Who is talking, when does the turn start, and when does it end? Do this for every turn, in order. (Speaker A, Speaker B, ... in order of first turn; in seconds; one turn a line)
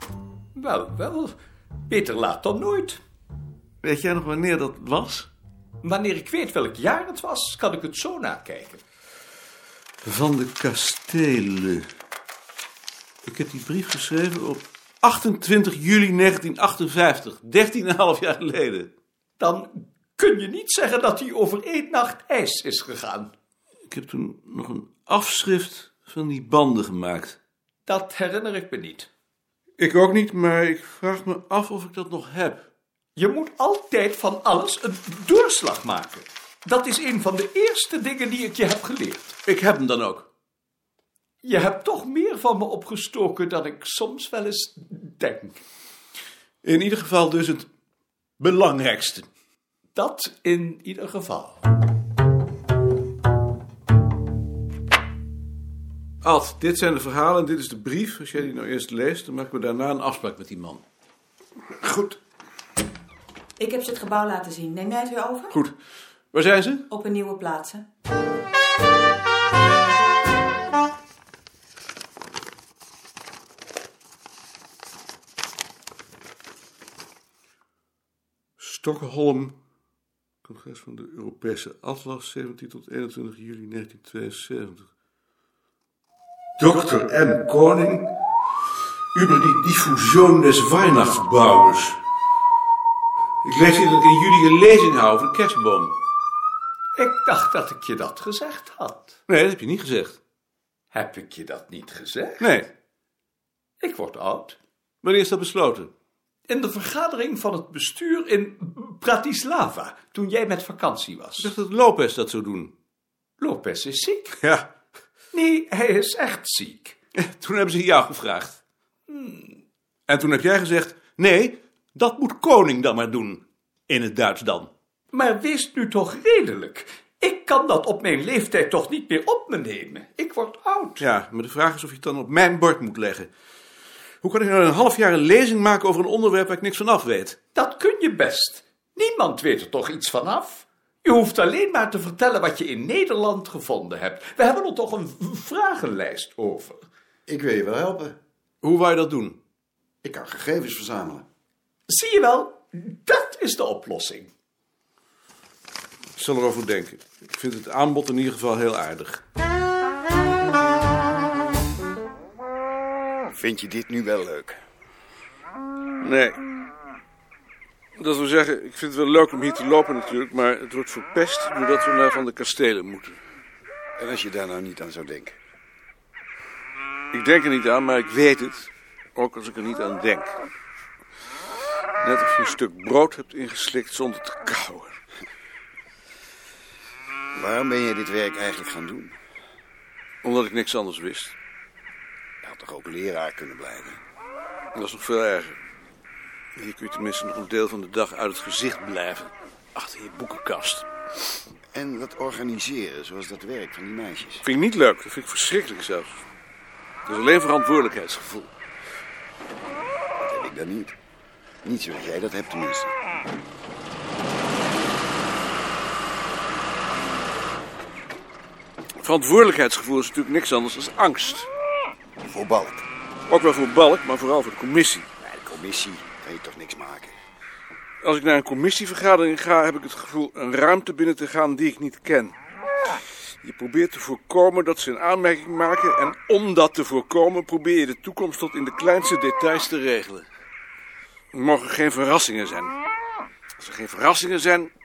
Speaker A: 0.5-1.4
Speaker A: 1.9-3.0
Speaker B: 3.8-5.3
Speaker A: 5.8-8.8
Speaker B: 10.0-11.9
Speaker B: 13.2-18.9
Speaker A: 19.4-23.3
Speaker B: 23.9-27.4
Speaker A: 27.9-29.1
Speaker B: 29.8-32.7
Speaker A: 33.1-39.3
Speaker B: 39.5-40.3
Speaker A: 41.4-45.6
Speaker B: 46.6-47.7
Speaker B: 48.4-49.3
Speaker A: 50.0-51.6
Speaker B: 56.2-60.8
Speaker B: 61.8-62.2
Speaker C: 63.6-65.5
Speaker B: 66.3-66.9
Speaker C: 66.9-67.8
Speaker B: 78.6-79.5
Speaker B: 80.4-84.9
Speaker B: 86.6-88.1
Speaker B: 89.1-92.0
Speaker B: 93.4-96.0
Speaker A: 97.0-99.2
Speaker B: 99.3-100.2
Speaker A: 100.9-102.5
Speaker B: 102.4-102.7
Speaker A: 103.8-104.6
Speaker B: 105.0-105.9
Speaker A: 106.5-111.5
Speaker B: 111.4-112.7
Speaker A: 113.4-114.4
Speaker B: 114.4-114.7
Speaker A: 115.3-117.0
Speaker B: 117.2-118.6
Speaker A: 119.1-119.6
Speaker B: 120.1-124.7
Speaker A: 125.1-131.1
Speaker B: 131.0-133.3
Speaker B: 134.2-137.4
Speaker A: 137.6-146.8
Speaker D: 147.3-148.2
Speaker B: 148.6-149.4
Speaker D: 150.0-151.2
Speaker A: 151.9-154.3
Speaker B: 156.2-159.2
Speaker D: 163.3-164.6
Speaker B: 166.0-166.4
Speaker B: 168.0-173.2
Speaker D: 174.0-175.4
Speaker B: 177.1-180.4
Speaker B: 182.0-185.0
Speaker D: 187.3-189.2
Speaker B: 190.2-191.3
Speaker D: 192.4-194.0
Speaker B: 194.7-195.6
Speaker B: 196.6-200.9
Speaker D: 201.8-204.4
Speaker B: 204.4-206.2
Speaker B: 207.1-208.5
Speaker D: 210.2-210.9
Speaker D: 211.6-212.9
Speaker B: 219.0-221.5
Speaker D: 222.2-222.9
Speaker B: 223.3-225.1
Speaker D: 225.2-227.2
Speaker B: 228.0-232.4
Speaker B: 233.4-240.3
Speaker B: 241.3-242.8
Speaker B: 243.6-244.7